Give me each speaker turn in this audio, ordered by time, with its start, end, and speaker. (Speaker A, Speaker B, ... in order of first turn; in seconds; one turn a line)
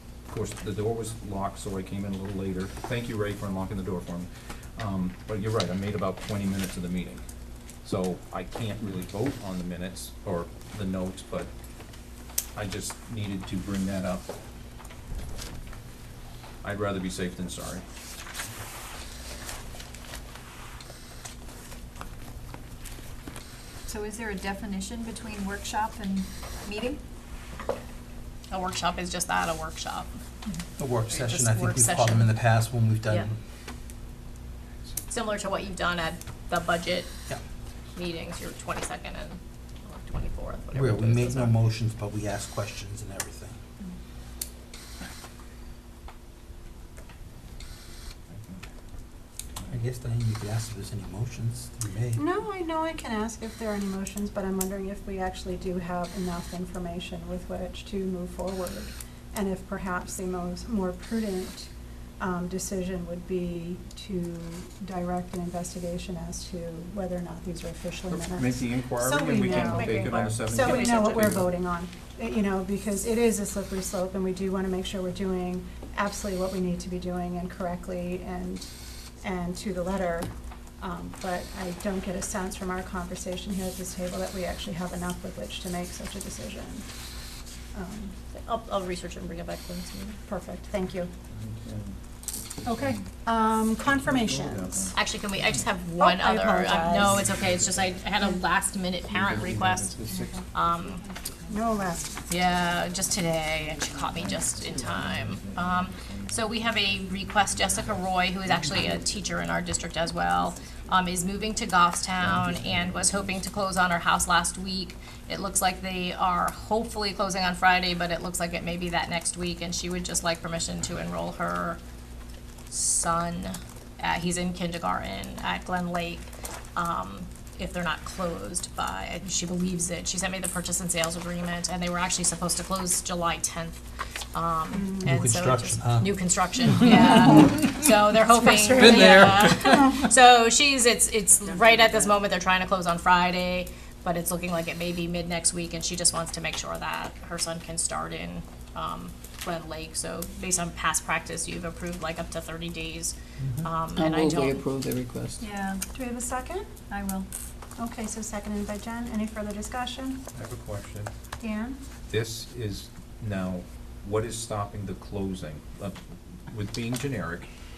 Speaker A: 0.3-7.2
Speaker A: 7.8-11.5
Speaker A: 12.6-14.3
Speaker A: 16.6-17.8
Speaker B: 23.9-27.0
Speaker C: 28.5-30.2
Speaker D: 30.8-33.4
Speaker C: 31.1-32.4
Speaker C: 35.1-37.1
Speaker C: 37.9-41.5
Speaker D: 40.7-43.6
Speaker A: 48.3-48.6
Speaker D: 49.7-52.2
Speaker E: 52.1-78.7
Speaker A: 68.1-71.5
Speaker C: 69.6-71.3
Speaker E: 79.2-86.8
Speaker E: 87.7-88.2
Speaker C: 88.3-90.2
Speaker E: 90.3-91.1
Speaker A: 91.3-91.9
Speaker A: 92.6-93.0
Speaker E: 92.7-95.0
Speaker A: 93.8-95.0
Speaker C: 95.0-101.0
Speaker E: 96.0-97.2
Speaker A: 97.2-97.9
Speaker A: 99.0-100.4
Speaker F: 101.0-101.5
Speaker E: 101.5-102.1
Speaker C: 102.3-121.8
Speaker F: 103.7-106.3
Speaker F: 112.4-113.1
Speaker C: 122.7-154.7
Speaker E: 134.7-135.1
Speaker D: 135.0-137.6
Speaker E: 136.9-137.5
Speaker E: 138.4-139.7
Speaker D: 138.5-140.1
Speaker D: 153.4-153.7
Speaker F: 153.9-155.5
Speaker B: 155.4-155.8
Speaker E: 155.9-156.7
Speaker B: 156.9-157.3
Speaker E: 157.8-160.2
Speaker A: 160.3-161.1
Speaker E: 161.4-161.8
Speaker A: 162.1-167.5